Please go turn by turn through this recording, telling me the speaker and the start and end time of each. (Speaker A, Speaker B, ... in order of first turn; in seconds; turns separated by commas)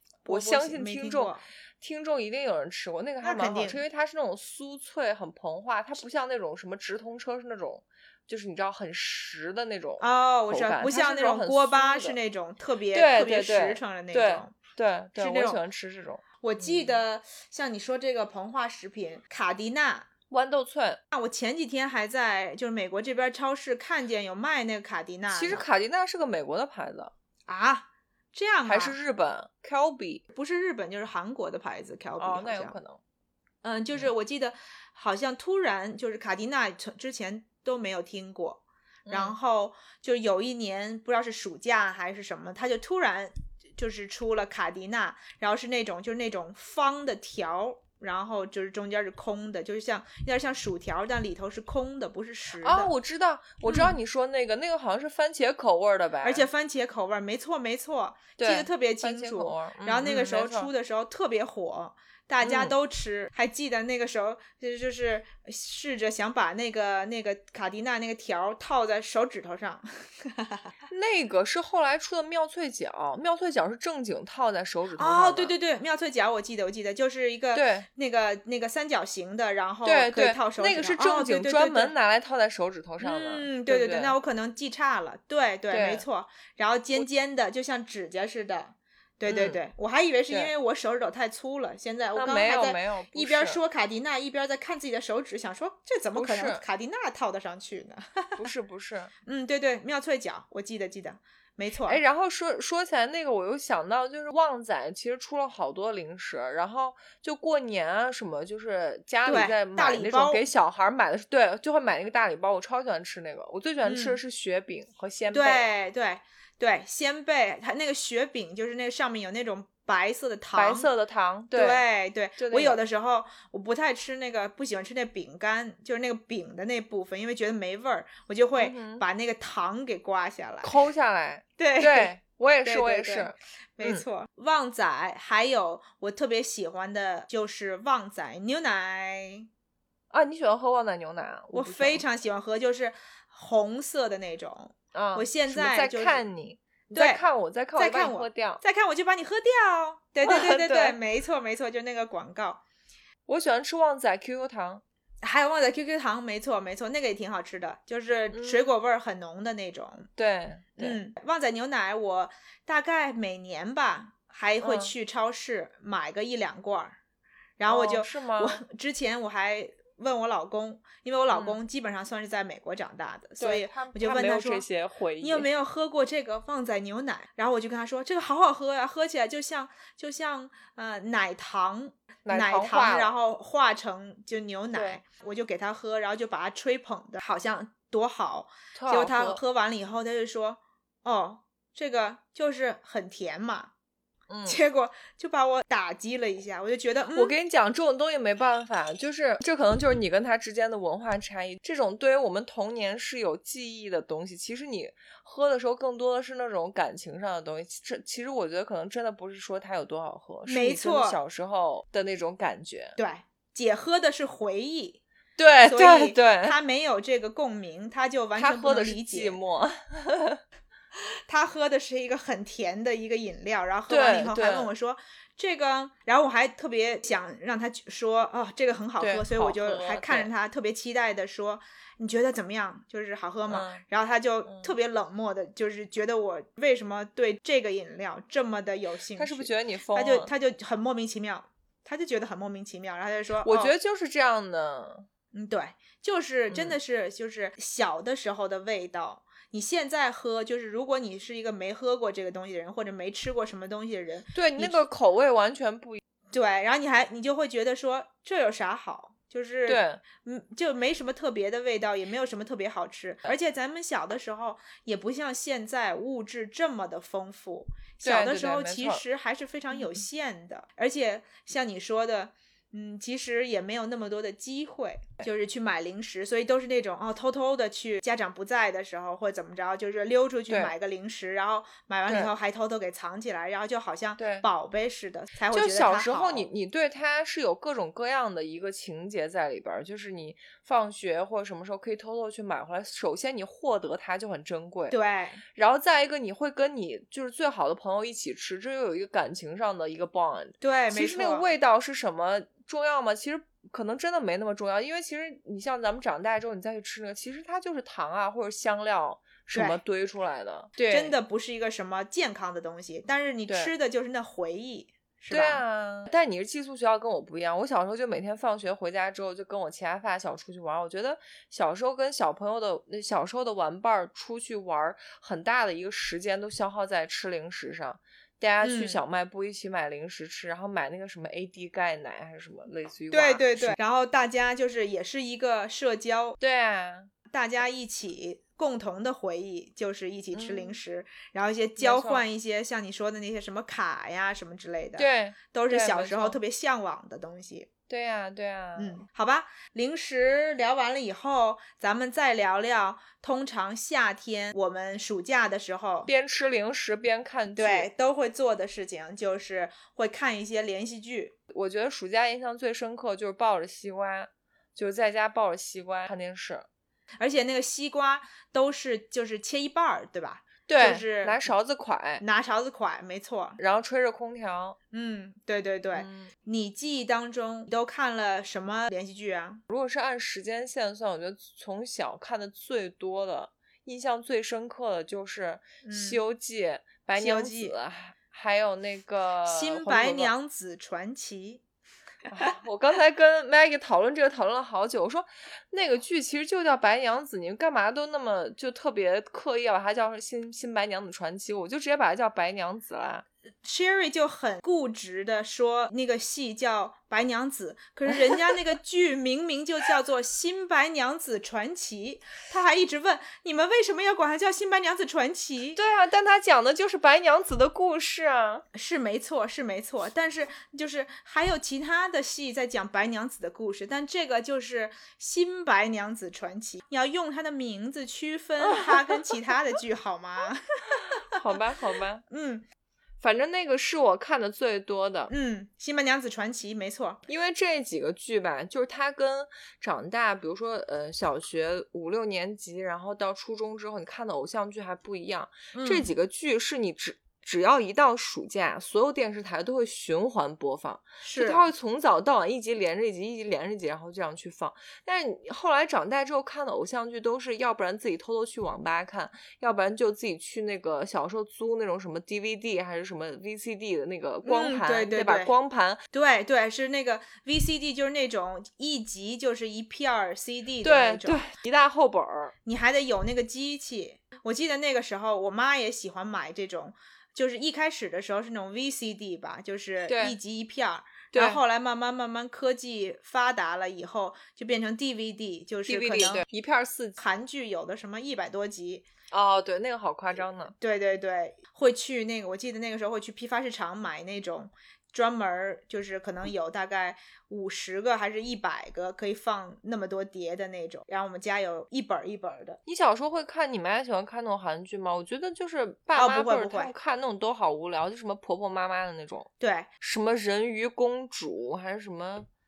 Speaker A: 0.2-1.4, Speaker B: 0.2-12.2, Speaker A: 3.2-3.8, Speaker A: 10.0-14.6, Speaker B: 12.9-17.0, Speaker A: 15.2-15.6, Speaker A: 16.4-20.1, Speaker B: 20.3-21.0, Speaker A: 21.1-25.6, Speaker B: 25.3-27.1, Speaker A: 27.5-28.9, Speaker B: 28.6-30.2, Speaker A: 30.3-32.8, Speaker B: 32.2-33.0, Speaker A: 33.6-52.9, Speaker B: 39.0-39.4, Speaker B: 52.6-56.5, Speaker A: 53.6-53.9, Speaker A: 56.2-70.7, Speaker B: 58.4-60.7, Speaker B: 62.4-62.7, Speaker B: 70.9-75.5, Speaker A: 75.0-81.9, Speaker B: 77.5-77.9, Speaker B: 79.8-84.2, Speaker A: 83.0-98.4, Speaker B: 85.7-86.0, Speaker B: 89.3-89.6, Speaker B: 92.2-93.6, Speaker B: 96.1-96.6, Speaker B: 98.4-99.1, Speaker A: 99.2-102.0, Speaker B: 101.8-115.7, Speaker A: 109.2-110.4, Speaker A: 113.8-114.2, Speaker A: 115.3-120.9, Speaker B: 120.5-121.8, Speaker A: 121.5-130.7, Speaker B: 122.4-122.8, Speaker B: 128.6-129.0, Speaker B: 130.6-134.0, Speaker A: 131.6-139.5, Speaker B: 140.1-142.0, Speaker A: 141.5-146.2, Speaker B: 144.9-148.6, Speaker A: 146.9-147.2, Speaker A: 147.8-152.6, Speaker B: 150.2-151.0, Speaker B: 153.3-154.8, Speaker A: 155.2-160.1, Speaker B: 158.3-158.7, Speaker B: 160.2-161.0, Speaker A: 160.8-166.9, Speaker B: 164.6-164.9, Speaker A: 167.6-174.6, Speaker B: 167.7-168.6, Speaker B: 171.3-171.6, Speaker B: 173.4-175.5, Speaker A: 175.2-193.7, Speaker B: 182.2-183.1, Speaker B: 184.7-185.0, Speaker B: 188.7-189.4, Speaker B: 194.3-194.6, Speaker A: 194.4-197.3, Speaker B: 197.1-213.0, Speaker A: 210.5-211.2, Speaker A: 213.0-215.0, Speaker B: 215.4-216.6, Speaker A: 215.6-219.4, Speaker B: 218.3-220.4, Speaker A: 221.3-243.7, Speaker B: 223.9-224.7, Speaker B: 229.0-230.3, Speaker B: 233.5-233.8, Speaker B: 234.4-234.7, Speaker B: 239.2-240.3, Speaker B: 243.4-245.1, Speaker A: 245.3-254.8, Speaker B: 246.5-246.8, Speaker B: 254.3-256.0, Speaker A: 256.3-286.5, Speaker B: 259.7-260.0, Speaker B: 268.0-269.0, Speaker B: 269.7-270.0, Speaker B: 280.5-280.7, Speaker B: 282.1-282.3, Speaker B: 284.2-284.5, Speaker B: 285.5-295.0, Speaker A: 294.9-295.4, Speaker B: 295.5-311.1, Speaker A: 300.6-301.5, Speaker A: 309.5-309.8, Speaker A: 310.9-315.6, Speaker B: 315.3-333.8, Speaker A: 328.6-329.0, Speaker A: 333.1-336.4, Speaker B: 336.4-337.1, Speaker A: 337.3-347.7, Speaker B: 340.3-340.8, Speaker B: 341.8-342.2, Speaker B: 345.0-346.4, Speaker B: 347.9-349.0, Speaker A: 348.8-356.1, Speaker B: 356.1-357.9, Speaker A: 357.6-361.3, Speaker B: 361.5-366.7, Speaker A: 367.2-371.4, Speaker B: 370.7-372.2, Speaker A: 372.2-373.6, Speaker B: 373.6-374.8, Speaker A: 374.9-379.6, Speaker B: 375.9-376.3, Speaker B: 379.7-390.3, Speaker A: 385.8-386.2, Speaker A: 387.1-387.7, Speaker A: 389.4-391.6, Speaker B: 392.3-403.2, Speaker A: 403.6-415.8, Speaker B: 408.3-408.6, Speaker B: 415.8-418.6, Speaker A: 418.7-431.4, Speaker B: 428.6-429.6, Speaker B: 431.2-432.2, Speaker A: 432.3-432.6, Speaker B: 433.2-435.3, Speaker A: 435.3-437.2, Speaker B: 437.3-466.0, Speaker A: 445.7-446.1, Speaker A: 451.2-451.6, Speaker A: 464.4-465.5, Speaker A: 466.1-471.4, Speaker B: 470.8-472.5, Speaker A: 472.6-486.4, Speaker B: 480.1-480.4, Speaker B: 481.3-481.6, Speaker B: 485.9-487.2, Speaker A: 487.2-489.1, Speaker B: 489.3-490.7, Speaker A: 490.7-502.8, Speaker B: 502.9-509.5, Speaker A: 506.1-506.9, Speaker A: 509.6-509.9, Speaker B: 510.0-512.5